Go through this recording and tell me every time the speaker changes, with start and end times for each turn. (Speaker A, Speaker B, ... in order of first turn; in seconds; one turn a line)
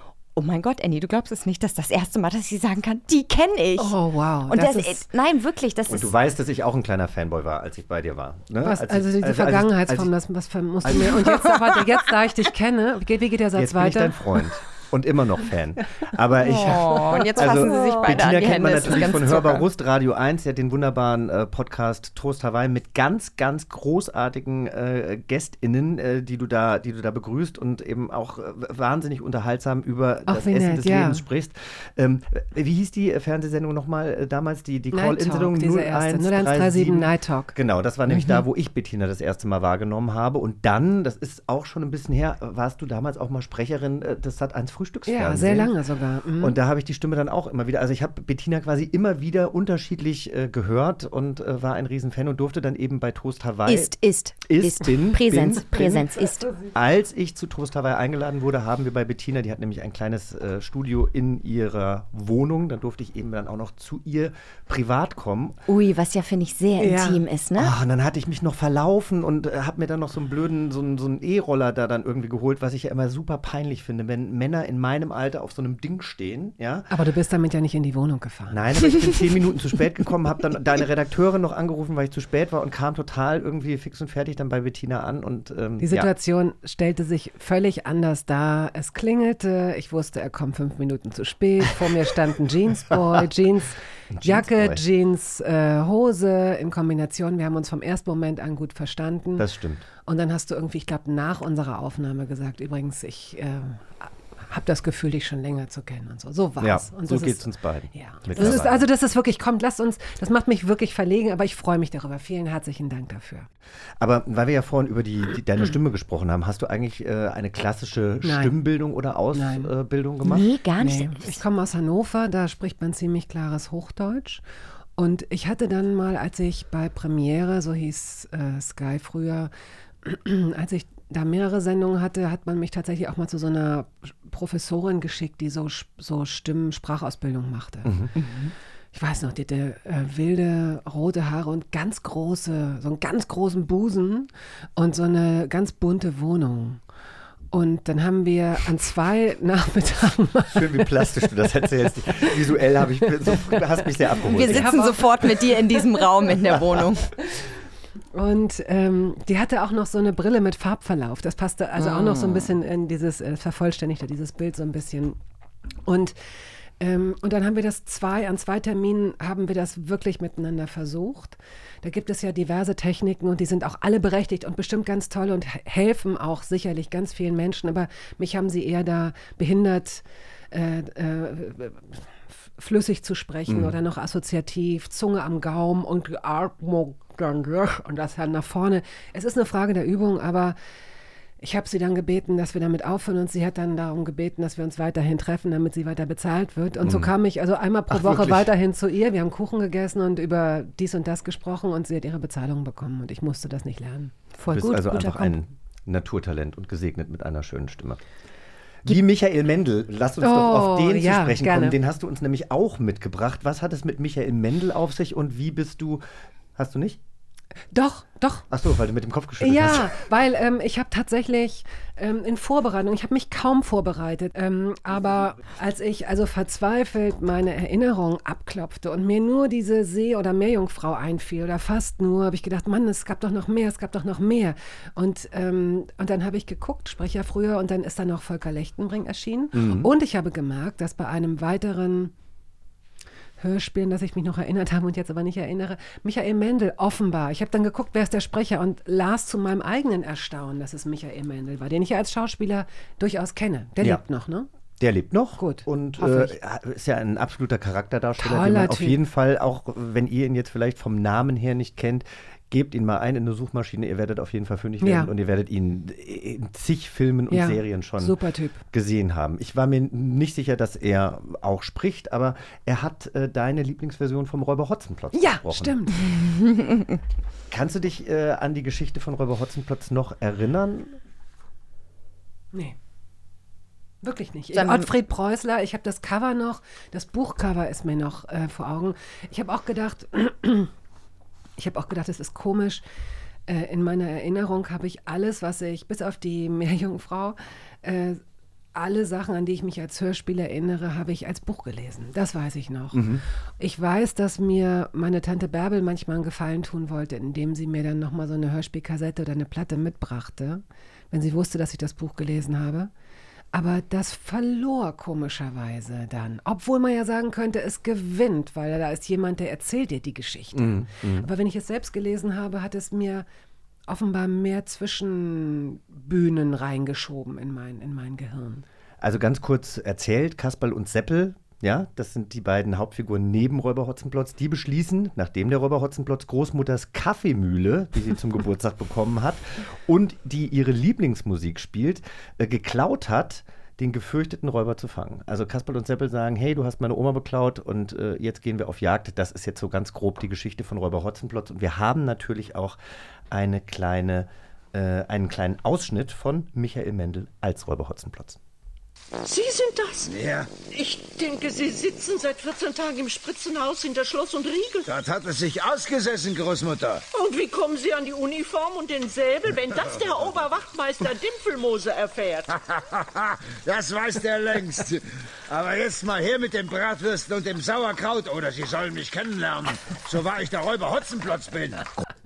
Speaker A: 0.4-4.0
Speaker B: 3.8-5.0
Speaker A: 4.5-6.1
Speaker C: 5.9-10.1
Speaker B: 8.6-14.2
Speaker C: 10.8-11.2
Speaker C: 13.6-45.8
Speaker A: 16.4-19.6
Speaker B: 17.4-18.1
Speaker B: 30.3-31.2
Speaker B: 34.9-37.6
Speaker B: 45.1-46.6
Speaker C: 46.4-53.9
Speaker A: 53.7-56.5
Speaker C: 54.5-56.1
Speaker C: 56.7-65.6
Speaker A: 65.7-67.7
Speaker B: 66.8-67.2
Speaker C: 67.6-76.9
Speaker B: 76.9-78.6
Speaker C: 78.5-86.1
Speaker B: 85.8-99.5
Speaker C: 94.1-94.8
Speaker C: 99.4-99.8
Speaker B: 100.1-113.5
Speaker C: 106.6-108.9
Speaker C: 114.0-120.4
Speaker B: 118.2-118.5
Speaker B: 119.3-119.7
Speaker A: 120.2-121.4
Speaker B: 120.8-124.4
Speaker B: 125.0-129.5
Speaker B: 130.0-138.0
Speaker C: 137.8-138.1
Speaker A: 138.2-138.5
Speaker B: 138.9-146.8
Speaker B: 147.5-151.1
Speaker C: 150.5-154.7
Speaker B: 154.2-155.9
Speaker A: 154.3-157.1
Speaker B: 158.1-165.2
Speaker A: 161.8-162.5
Speaker B: 165.9-166.2
Speaker B: 166.8-182.0
Speaker B: 182.6-190.6
Speaker C: 183.5-183.7
Speaker B: 191.4-204.1
Speaker C: 196.8-197.1
Speaker C: 197.9-198.5
Speaker A: 204.4-205.4
Speaker C: 204.5-208.0
Speaker C: 208.8-216.0
Speaker B: 210.2-211.8
Speaker C: 216.6-217.0
Speaker B: 217.7-218.5
Speaker C: 218.5-219.9
Speaker B: 219.4-242.1
Speaker C: 239.5-239.9
Speaker B: 243.4-254.5
Speaker C: 254.8-268.2
Speaker B: 255.4-256.4
Speaker B: 258.2-259.0
Speaker B: 264.8-265.1
Speaker B: 267.3-268.6
Speaker C: 268.7-275.8
Speaker B: 275.1-276.1
Speaker A: 276.1-277.0
Speaker C: 277.5-281.0
Speaker B: 284.0-290.7
Speaker A: 284.5-284.9
Speaker B: 291.6-292.8
Speaker B: 293.5-298.2
Speaker B: 298.8-303.1
Speaker C: 302.9-303.2
Speaker B: 303.6-312.9
Speaker B: 313.5-323.3
Speaker C: 320.6-321.3
Speaker B: 323.9-328.6
Speaker C: 329.0-352.8
Speaker C: 353.3-358.4
Speaker D: 359.2-360.1
Speaker E: 360.1-360.6
Speaker D: 360.7-364.9
Speaker E: 364.9-367.1
Speaker D: 367.1-372.5
Speaker E: 372.6-381.9